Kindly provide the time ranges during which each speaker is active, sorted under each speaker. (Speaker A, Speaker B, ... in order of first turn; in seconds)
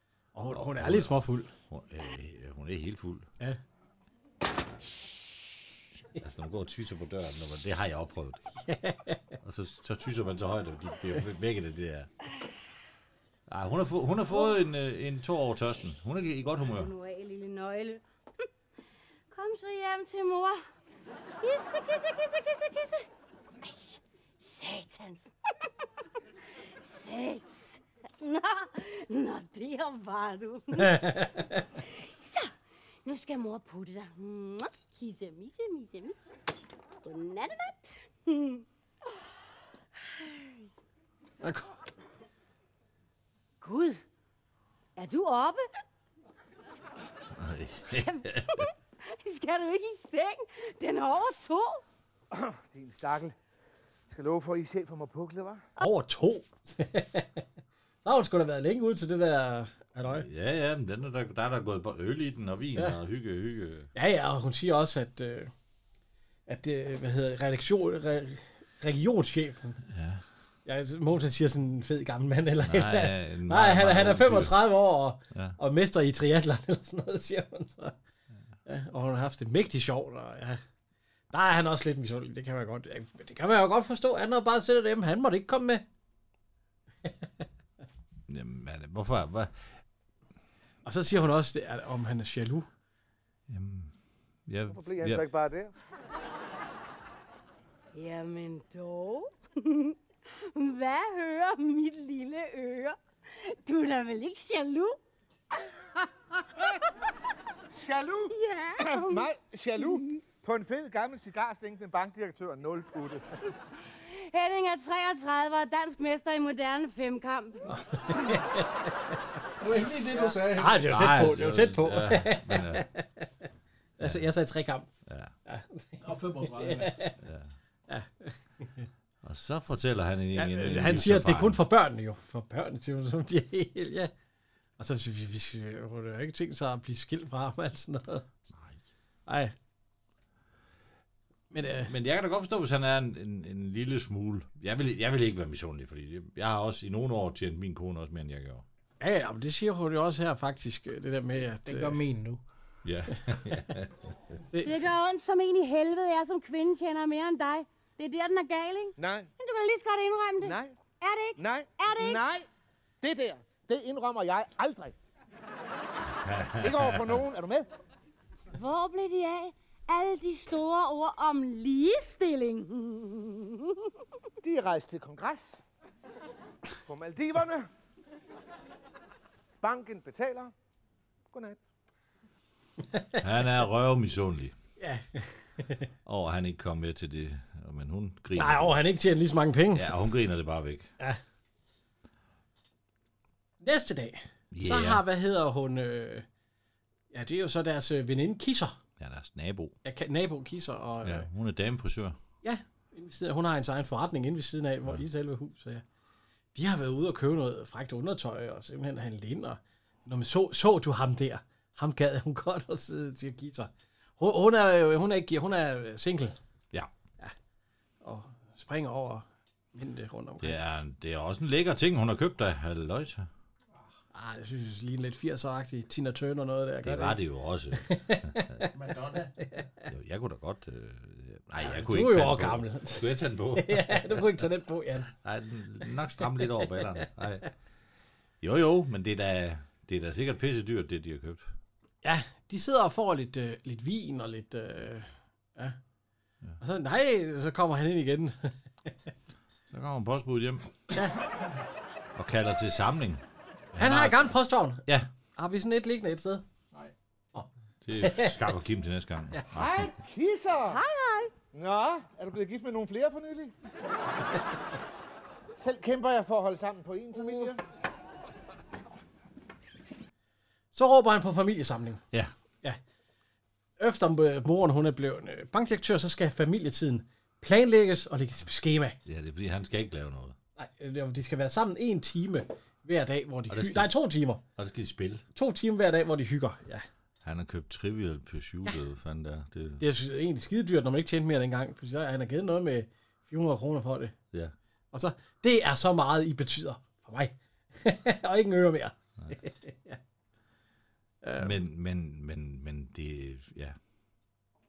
Speaker A: 0.3-1.5, 8.6-9.3, 30.8-31.6, 41.4-41.8, 55.8-57.4, 58.0-60.2, 63.9-65.5, 66.5-69.8, 70.7-78.0, 78.7-80.6, 81.3-85.8, 90.8-92.7, 117.7-119.2, 120.5-123.3, 124.0-124.9, 125.5-127.1, 127.9-128.9, 130.3-134.1, 134.8-138.2, 139.3-139.5, 141.5-141.9, 149.0-152.0, 182.9-183.2, 184.8-185.9, 188.3-189.9, 193.6-196.2, 197.1-198.8, 199.8-201.3, 202.4-205.8, 206.5-216.4, 218.0-220.6, 224.1-227.2, 227.7-228.7, 229.4-229.8, 231.6-235.1, 242.0-245.8, 246.6-248.9, 250.9-251.2, 253.8-254.8, 255.3-256.4, 257.3-258.4, 270.7-272.0, 273.8-279.0, 280.6-284.4, 285.3-286.8, 289.8-294.1, 294.9-300.0, 301.2-301.6
Speaker B: 0.5-3.3, 6.2-8.4, 9.4-12.1, 13.5-16.9, 47.3-48.7, 60.0-63.9, 69.8-70.2, 72.6-74.7, 75.3-75.5, 88.3-89.7, 93.5-93.9, 94.5-95.3, 120.8-122.8, 124.0-124.2, 125.1-125.3, 127.2-127.5, 129.2-131.6, 141.8-148.6, 152.8-154.1, 166.1-167.2, 183.2-184.5, 186.0-188.8, 189.7-190.9, 194.5-195.0, 199.0-199.8, 201.0-202.2, 220.4-223.3, 226.8-228.6, 229.9-234.4, 235.1-237.5, 238.4-241.5, 249.7-251.0, 252.2-254.3, 257.8-259.9, 279.0-280.4, 283.5-283.9, 284.6-285.2, 287.2-289.8, 301.4-303.8
Speaker C: 16.6-18.0, 19.3-20.6, 21.4-23.1, 23.6-25.3, 26.8-32.5, 33.0-36.2, 37.0-38.6, 40.0-40.6, 43.6-44.0, 45.0-45.6, 47.9-51.8, 97.9-105.0, 108.3-110.1, 113.8-117.8, 154.6-162.2, 168.5-173.8, 260.7-261.2
Speaker D: 52.3-53.3, 54.1-55.6, 94.7-95.7, 107.7-113.2, 159.0-159.3, 160.4-160.8, 161.4-162.5, 163.0-164.9, 166.6-167.7, 174.4-175.6, 176.8-177.7, 179.6-180.5, 181.3-181.6, 259.5-260.8, 261.5-263.5, 265.5-267.6
Speaker E: 119.6-121.3, 126.0-127.1, 151.6-152.4, 228.7-229.3